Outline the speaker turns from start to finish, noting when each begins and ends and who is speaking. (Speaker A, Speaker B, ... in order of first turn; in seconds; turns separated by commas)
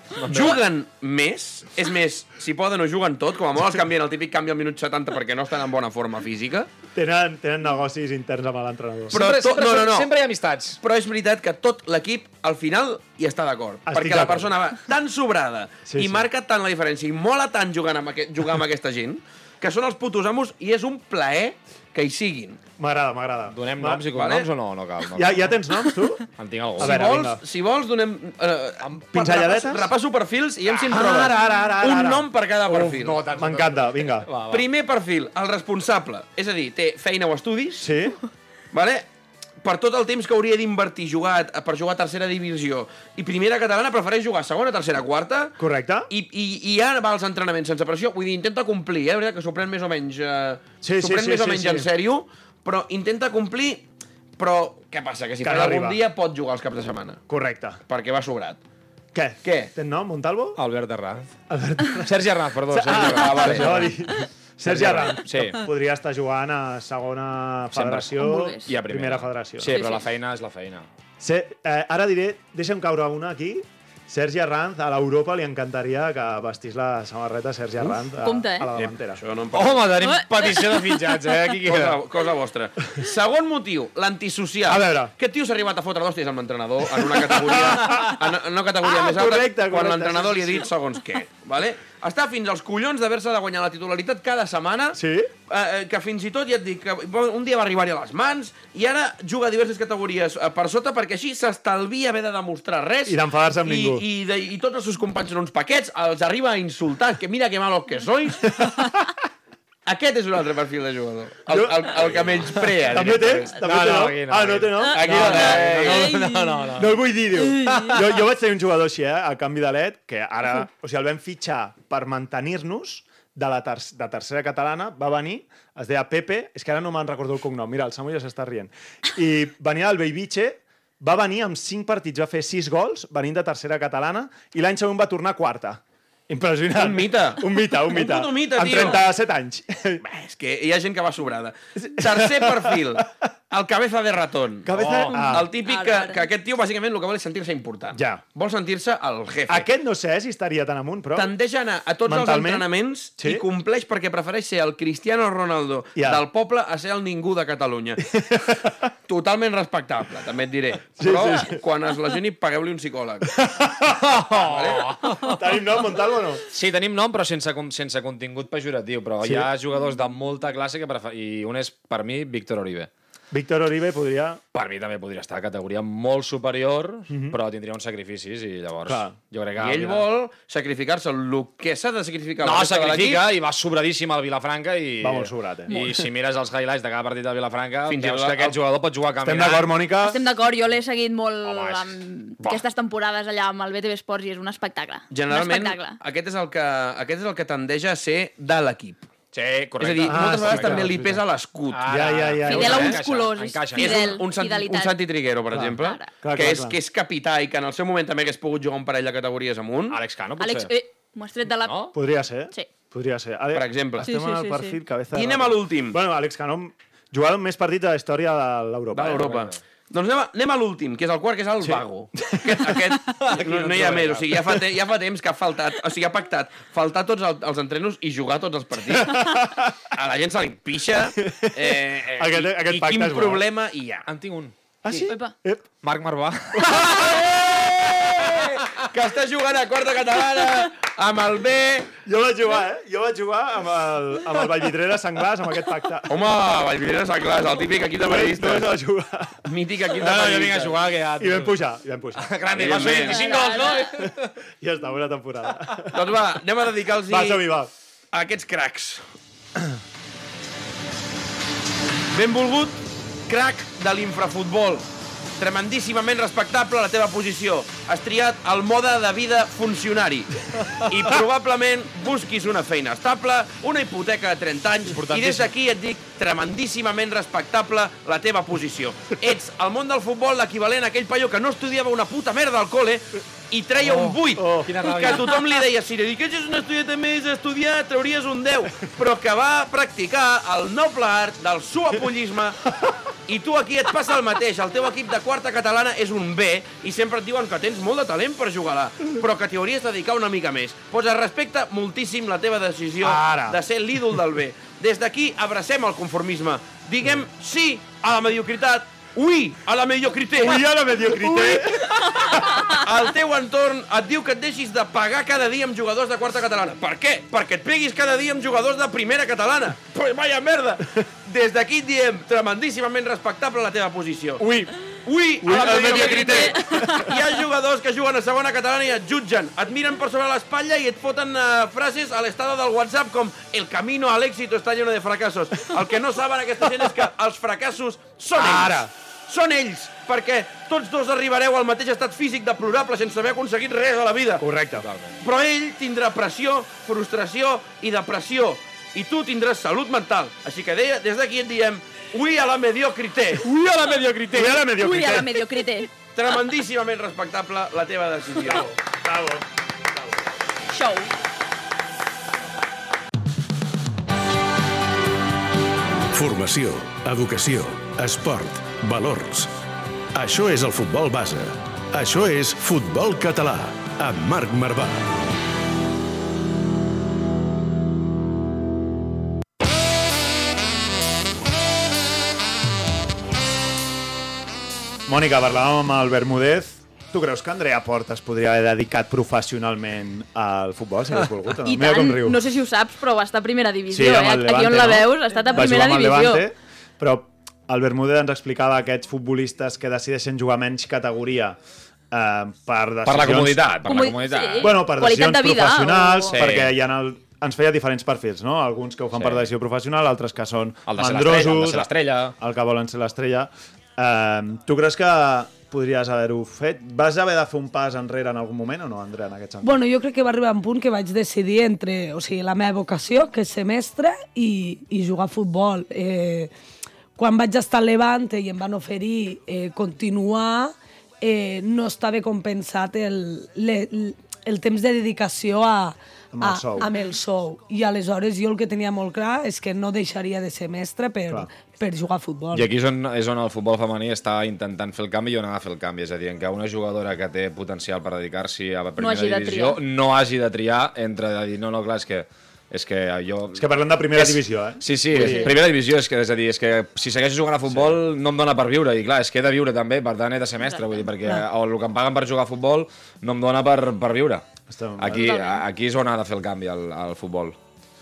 Speaker A: 0.1-0.6, Speaker B: 0.3-6.7, Speaker C: 6.9-9.2, Speaker A: 9.1-10.8, Speaker B: 9.1-10.1, Speaker B: 10.8-22.6, Speaker C: 13.8-14.5, Speaker C: 15.8-16.3, Speaker C: 22.8-24.1, Speaker A: 23.5-25.5, Speaker B: 24.1-24.5, Speaker C: 25.1-26.2, Speaker A: 26.4-27.1, Speaker C: 26.8-27.4, Speaker B: 26.8-33.2, Speaker C: 29.0-29.9, Speaker C: 30.7-32.3, Speaker A: 32.7-34.6, Speaker C: 33.2-34.3, Speaker B: 34.5-37.9, Speaker C: 37.8-38.2, Speaker B: 38.7-39.0, Speaker B: 39.6-57.2, Speaker C: 45.6-46.1, Speaker C: 50.8-51.9, Speaker C: 55.4-56.0, Speaker C: 57.3-57.8, Speaker B: 57.9-58.6, Speaker C: 59.1-60.6, Speaker B: 59.4-59.7, Speaker A: 60.6-61.3, Speaker C: 61.5-69.8, Speaker A: 62.0-64.0, Speaker B: 62.9-63.9, Speaker A: 64.6-65.6, Speaker A: 67.7-70.9, Speaker D: 68.2-68.7, Speaker D: 69.7-70.1, Speaker C: 71.2-79.2, Speaker D: 78.2-78.7, Speaker B: 78.8-80.0, Speaker A: 79.5-82.0, Speaker D: 80.0-80.9, Speaker B: 81.6-108.7, Speaker C: 84.7-85.1, Speaker C: 87.0-88.1, Speaker C: 88.8-90.7, Speaker C: 94.9-95.3, Speaker C: 103.0-104.0, Speaker C: 108.6-108.9, Speaker B: 109.8-113.6, Speaker C: 111.5-116.2, Speaker A: 113.5-117.0, Speaker B: 114.9-116.0, Speaker D: 115.8-116.8, Speaker C: 116.7-140.0, Speaker D: 117.4-118.0, Speaker B: 136.7-139.1, Speaker B: 140.0-149.7, Speaker C: 141.8-143.0, Speaker C: 144.6-145.5, Speaker A: 144.8-145.1, Speaker D: 145.1-146.2, Speaker C: 147.9-148.2, Speaker C: 149.5-151.3, Speaker B: 151.1-158.0, Speaker C: 152.1-153.4, Speaker C: 155.9-156.2, Speaker C: 158.0-158.8, Speaker B: 159.1-163.4, Speaker C: 161.0-161.6, Speaker C: 163.3-164.1, Speaker A: 164.0-165.5, Speaker B: 164.3-164.9, Speaker C: 165.2-166.4, Speaker A: 166.5-172.9, Speaker C: 169.2-169.5, Speaker C: 173.3-174.4, Speaker A: 174.5-180.0, Speaker C: 177.1-177.4, Speaker C: 178.8-179.2, Speaker B: 179.6-183.2, Speaker A: 182.4-189.7, Speaker C: 185.0-185.9, Speaker D: 185.7-186.0, Speaker B: 187.8-188.6, Speaker C: 189.2-190.2, Speaker D: 190.0-196.0, Speaker A: 191.4-192.6, Speaker B: 195.1-199.1, Speaker A: 199.3-201.0, Speaker B: 199.8-201.9, Speaker C: 200.0-201.2, Speaker A: 201.7-204.2, Speaker C: 201.8-203.0, Speaker D: 202.4-204.9, Speaker B: 203.7-210.0, Speaker C: 205.5-206.8, Speaker D: 205.8-206.2, Speaker A: 209.9-210.7, Speaker D: 210.4-211.9, Speaker A: 211.6-211.9, Speaker C: 211.9-219.3, Speaker B: 213.5-214.1, Speaker D: 214.0-214.8, Speaker B: 215.1-216.0, Speaker B: 218.9-229.2, Speaker A: 219.0-219.6, Speaker C: 221.6-222.9, Speaker A: 223.1-224.6, Speaker C: 228.9-229.8, Speaker B: 229.9-234.1, Speaker C: 231.2-233.4, Speaker A: 234.0-234.5, Speaker C: 234.8-235.6, Speaker D: 235.1-235.3, Speaker A: 235.8-237.1, Speaker C: 236.6-237.2, Speaker B: 237.0-237.6, Speaker B: 238.3-241.9, Speaker C: 242.0-246.2, Speaker B: 246.1-248.7, Speaker C: 248.1-249.4, Speaker B: 249.4-250.8, Speaker A: 250.0-251.6, Speaker C: 251.2-252.7, Speaker A: 252.2-254.3, Speaker B: 252.5-253.2, Speaker D: 253.0-253.9, Speaker C: 254.6-256.1, Speaker B: 255.9-257.4, Speaker C: 257.0-257.7, Speaker B: 258.1-259.0, Speaker B: 262.1-264.8, Speaker B: 265.4-292.6, Speaker A: 275.0-275.4, Speaker A: 283.8-285.4, Speaker C: 284.4-284.7, Speaker B: 293.3-311.6, Speaker C: 303.0-303.6, Speaker C: 310.4-312.6, Speaker B: 312.6-344.4, Speaker C: 324.4-324.7, Speaker C: 325.4-327.1, Speaker D: 325.9-327.1, Speaker C: 338.3-338.9, Speaker C: 344.4-344.9, Speaker A: 344.8-345.1, Speaker B: 345.2-354.6, Speaker C: 354.2-355.4, Speaker D: 354.7-355.9, Speaker B: 356.0-358.7, Speaker C: 358.4-359.4, Speaker D: 360.7-361.1, Speaker E: 366.1-369.5, Speaker E: 370.1-375.2, Speaker C: 385.1-392.4, Speaker D: 391.6-396.4, Speaker C: 393.9-401.6, Speaker C: 402.1-403.8, Speaker A: 403.0-404.8, Speaker D: 403.8-406.4, Speaker C: 404.6-419.8, Speaker A: 406.3-406.7, Speaker A: 409.1-409.5, Speaker A: 410.9-412.3, Speaker F: 419.6-426.5, Speaker F: 427.1-442.7, Speaker C: 436.3-436.9, Speaker A: 442.5-464.4, Speaker D: 449.0-449.8, Speaker C: 453.5-455.6, Speaker D: 455.2-455.5, Speaker C: 457.7-458.0, Speaker D: 460.6-461.3, Speaker C: 464.7-465.3, Speaker A: 465.0-467.6, Speaker D: 465.1-465.6